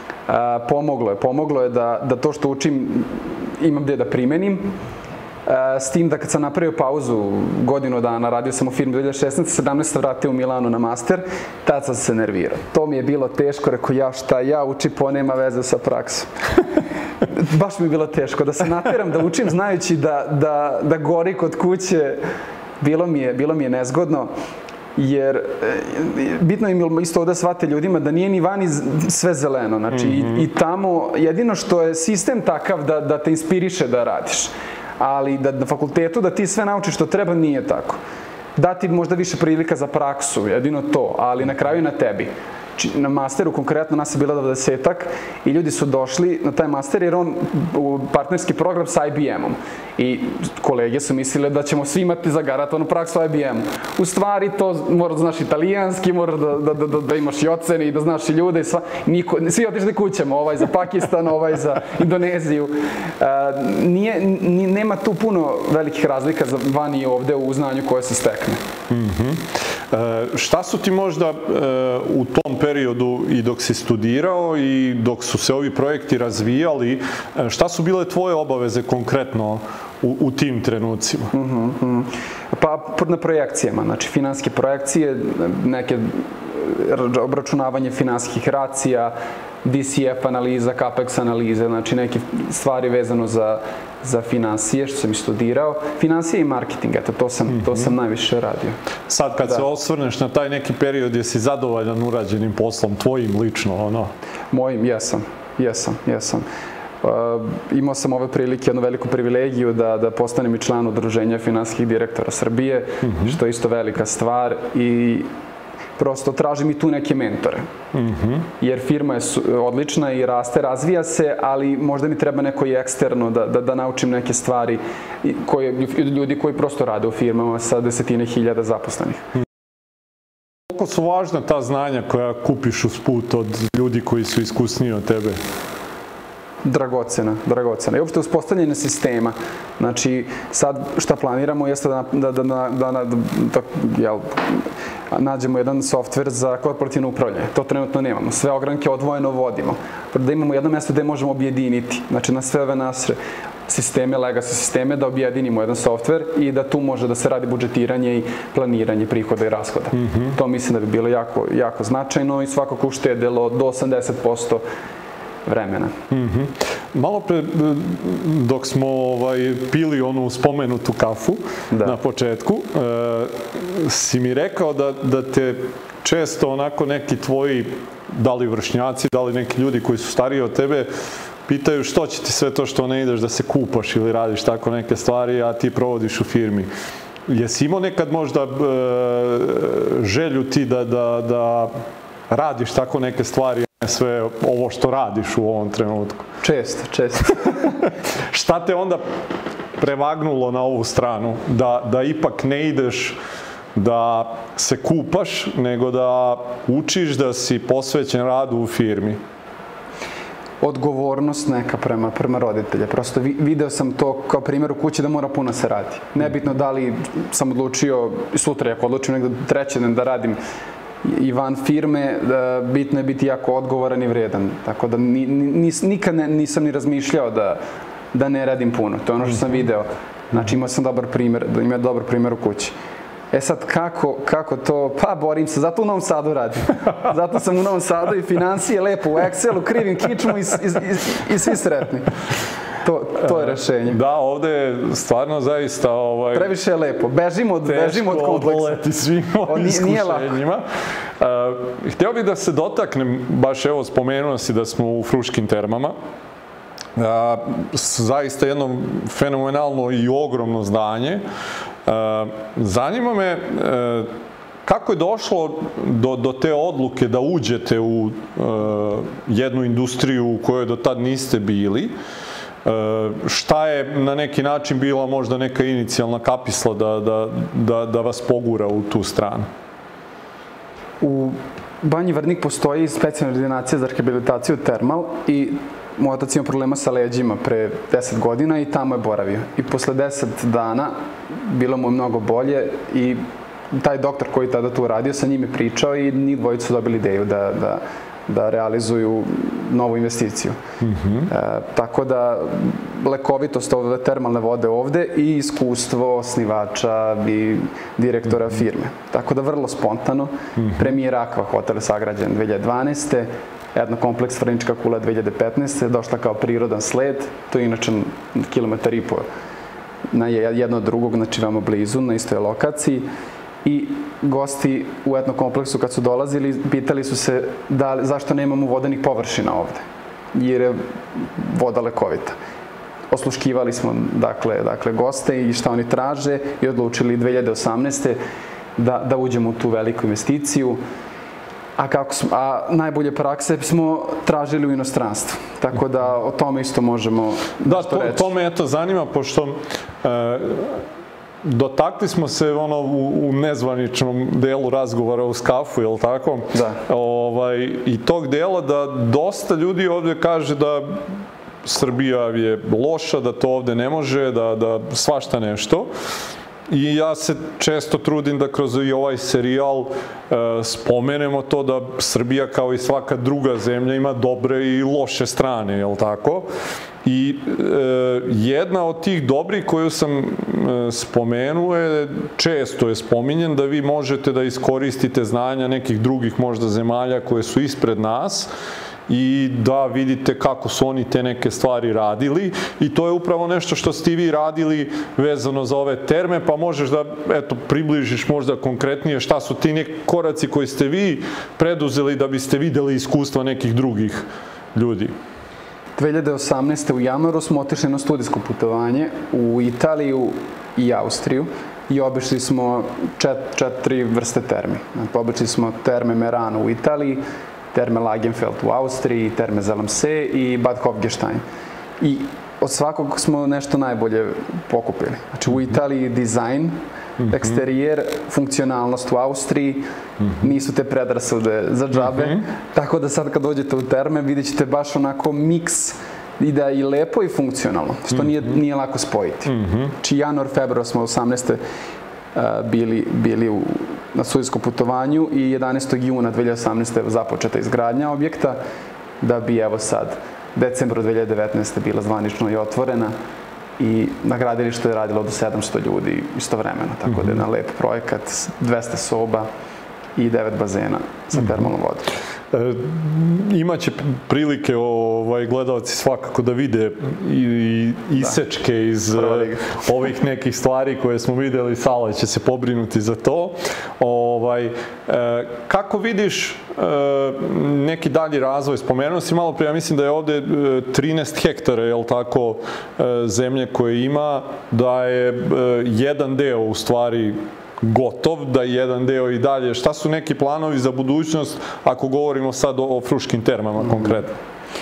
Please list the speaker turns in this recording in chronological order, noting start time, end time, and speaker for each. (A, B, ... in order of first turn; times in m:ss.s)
0:00.3-0:04.7 A
0:05.5-0:16.3 A
0:17.3-0:22.2 A
0:22.8-0:24.3 A
0:25.0-0:38.0 A
0:38.6-1:08.6 A
1:08.9-1:21.3 B
1:21.3-1:29.1 A
1:29.6-1:38.8 A
1:39.1-1:44.1 B
1:44.5-1:46.5 A
1:47.0-1:55.3 A
1:53.1-1:53.3 B
1:56.0-1:57.7 A
1:57.9-1:58.5 B
1:58.6-2:09.2 A
2:10.7-2:15.4 B
2:16.6-2:33.2 A
2:33.7-2:44.6 A
2:40.0-2:40.3 B
2:45.5-2:46.0 A
2:46.1-3:00.9 B
3:01.5-3:06.7 B
3:07.3-3:11.7 B
3:12.3-3:16.3 B
3:16.4-3:17.7 A
3:17.9-3:19.0 B
3:19.8-3:23.2 B
3:23.8-3:29.2 B
3:30.6-3:40.4 A
3:41.0-3:47.6 A
3:48.1-3:52.7 A
3:53.3-4:02.2 A
4:02.8-4:04.0 A
4:03.3-4:06.5 B
4:06.3-4:08.8 A
4:07.6-4:10.6 B
4:09.4-4:10.4 A
4:11.2-4:16.0 B
4:17.0-4:21.2 B
4:21.8-4:24.1 B
4:24.6-4:31.9 B
4:32.6-4:39.5 B
4:41.0-5:00.6 A
5:00.8-5:01.3 B
5:01.3-5:19.3 A
5:10.6-5:10.9 B
5:20.1-5:23.1 A
5:23.6-5:32.4 A
5:33.1-5:38.2 A
5:38.8-5:40.8 A
5:41.8-5:48.3 A
5:47.6-5:50.9 B
5:51.4-6:01.0 B
5:56.5-5:56.8 A
6:01.6-6:05.9 B
6:06.7-6:16.5 B
6:17.0-6:28.5 B
6:29.1-6:45.1 B
6:46.0-7:01.4 A
7:02.0-7:09.8 A
7:07.2-7:07.6 B
7:10.4-7:21.6 A
7:12.1-7:12.4 B
7:19.5-7:19.9 B
7:22.4-7:28.6 A
7:29.2-7:33.2 A
7:33.8-7:39.5 A
7:40.2-7:42.2 A
7:42.5-8:14.4 B
7:49.1-7:49.8 A